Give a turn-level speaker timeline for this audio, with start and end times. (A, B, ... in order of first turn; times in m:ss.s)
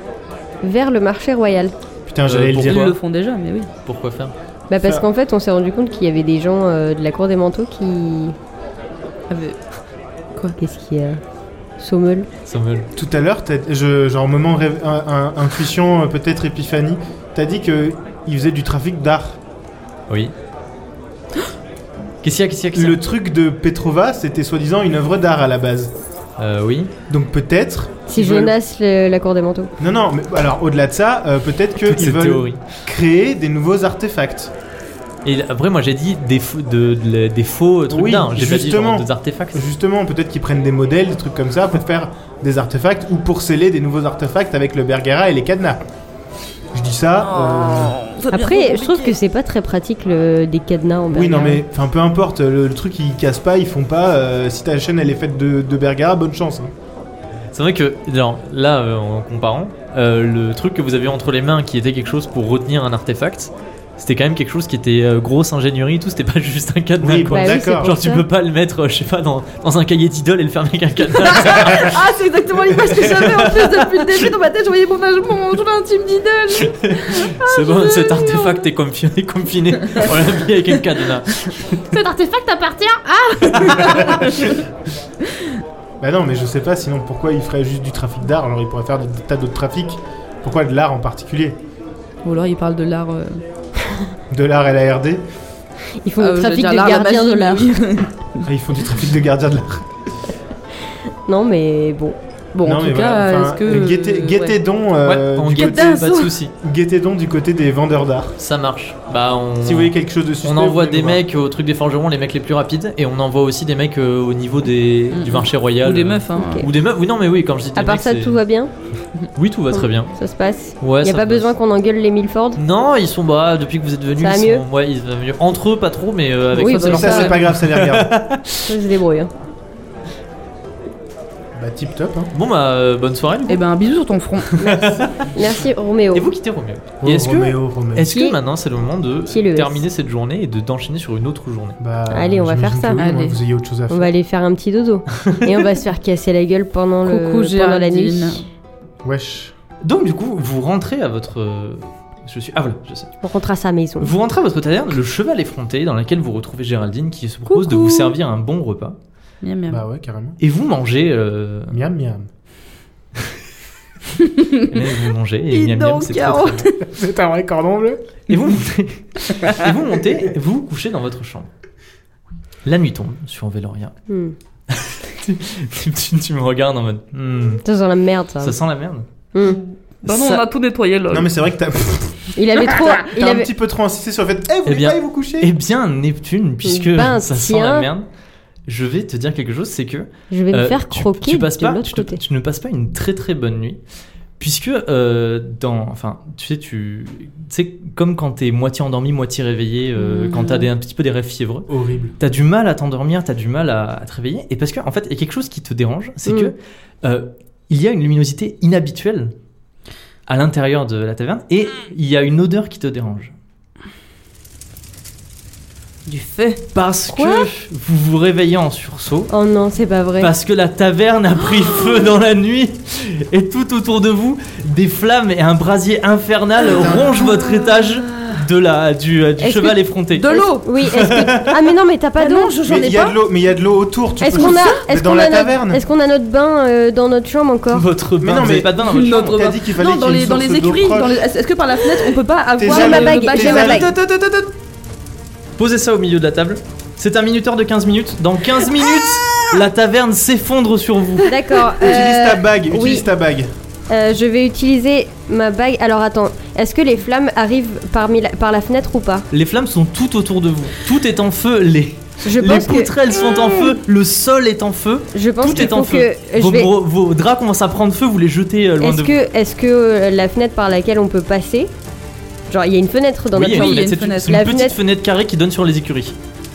0:00.6-0:01.7 A
0:02.1-0:02.9 B
0:02.3-0:03.0 C
0:02.6-0:03.7 D
0:03.9-0:04.3 C
0:04.7-0:08.4 A
0:04.8-0:05.1 B
0:09.3-0:09.6 D
0:10.6-0:11.2 A
0:11.8-0:12.3 A
0:12.5-0:12.9 C
0:13.0-0:19.4 B
0:22.2-0:23.0 C
0:22.7-0:25.9 B
0:26.4-0:26.9 C
0:27.1-0:28.6 B
0:28.1-0:29.7 A
0:29.8-0:34.5 B
0:31.8-0:32.6 C
0:35.2-0:39.6 C
0:37.9-0:45.8 B
0:46.7-0:48.0 B
0:47.2-0:49.2 D
0:48.3-0:51.6 A
0:51.1-0:56.7 B
0:57.5-1:12.0 C
1:07.0-1:08.0 B
1:07.3-1:08.3 A
1:11.2-1:18.6 D
1:13.1-1:14.2 C
1:16.6-1:21.8 C
1:21.9-1:24.6 D
1:23.5-1:24.3 C
1:26.0-1:31.6 B
1:32.2-1:33.4 D
1:34.3-1:35.2 B
1:36.0-1:37.8 A
1:36.2-1:38.4 D
1:38.4-1:39.9 B
1:41.3-1:42.2 A
1:42.5-1:44.6 D
1:42.6-1:46.0 B
1:45.0-1:46.5 C
1:45.6-1:46.3 D
1:46.6-1:48.4 B
1:48.4-1:58.4 C
1:49.6-1:51.2 B
1:55.1-1:56.7 D
1:56.4-1:56.7 A
1:57.8-1:58.7 A
1:59.4-2:00.1 C
1:59.7-2:02.6 A
2:00.8-2:01.5 C
2:02.6-2:08.7 C
2:04.2-2:04.6 A
2:06.5-2:07.4 A
2:06.7-2:07.2 D
2:06.8-2:08.1 B
2:08.7-2:09.3 A
2:11.6-2:12.3 B
2:12.3-2:13.6 C
2:13.5-2:14.6 D
2:14.5-2:15.3 C
2:14.6-2:16.3 A
2:16.1-2:21.8 C
2:17.0-2:18.1 B
2:18.1-2:18.4 A
2:19.3-2:19.8 A
2:21.8-2:24.1 B
2:22.1-2:23.0 A
2:23.0-2:23.4 D
2:23.9-2:28.4 A
2:27.0-2:28.4 D
2:29.0-2:29.5 B
2:29.8-2:33.1 C
2:33.2-2:34.1 A
2:34.0-2:39.0 C
2:37.5-2:38.1 D
2:39.4-2:39.8 D
2:39.7-2:40.4 B
2:40.4-2:41.8 C
2:41.7-2:42.3 B
2:44.2-2:44.9 D
2:44.6-2:46.7 C
2:45.5-2:46.8 D
2:46.8-2:48.0 B
2:48.3-2:51.5 C
2:52.6-2:53.9 C
2:54.1-2:54.4 A
2:54.7-2:57.6 C
2:57.6-2:58.6 A
2:58.4-2:59.1 C
2:59.3-2:59.6 A
2:59.4-3:01.3 D
3:00.0-3:00.4 C
3:01.1-3:05.5 B
3:02.4-3:03.5 A
3:04.7-3:08.1 C
3:06.6-3:07.9 A
3:08.7-3:13.8 C
3:10.3-3:12.2 A
3:14.4-3:29.3 C
3:20.0-3:20.7 D
3:21.7-3:22.2 B
3:26.3-3:26.5 A
3:30.3-3:33.4 C
3:36.1-3:36.6 D
3:36.7-3:39.3 C
3:37.1-3:37.5 A
3:39.3-3:40.3 A
3:40.2-3:51.6 C
3:46.7-3:47.2 B
3:46.7-3:48.4 D
3:49.4-3:52.6 A
3:50.1-3:50.7 D
3:52.2-3:53.2 D
3:52.6-3:55.8 B
3:54.2-3:57.9 A
3:54.3-3:54.8 D
3:57.7-3:59.4 C
3:58.2-4:01.2 B
3:58.8-4:03.9 D
4:02.6-4:04.2 B
4:02.7-4:03.9 A
4:03.9-4:04.4 C
4:05.6-4:11.4 C
4:08.8-4:09.4 D
4:11.3-4:13.1 A
4:11.8-4:13.5 B
4:13.9-4:19.3 A
4:19.3-4:29.2 C
4:22.2-4:22.9 A
4:25.1-4:26.7 A
4:28.8-4:31.7 A
4:32.5-4:34.8 A
4:33.3-4:36.1 C
4:33.5-4:34.4 D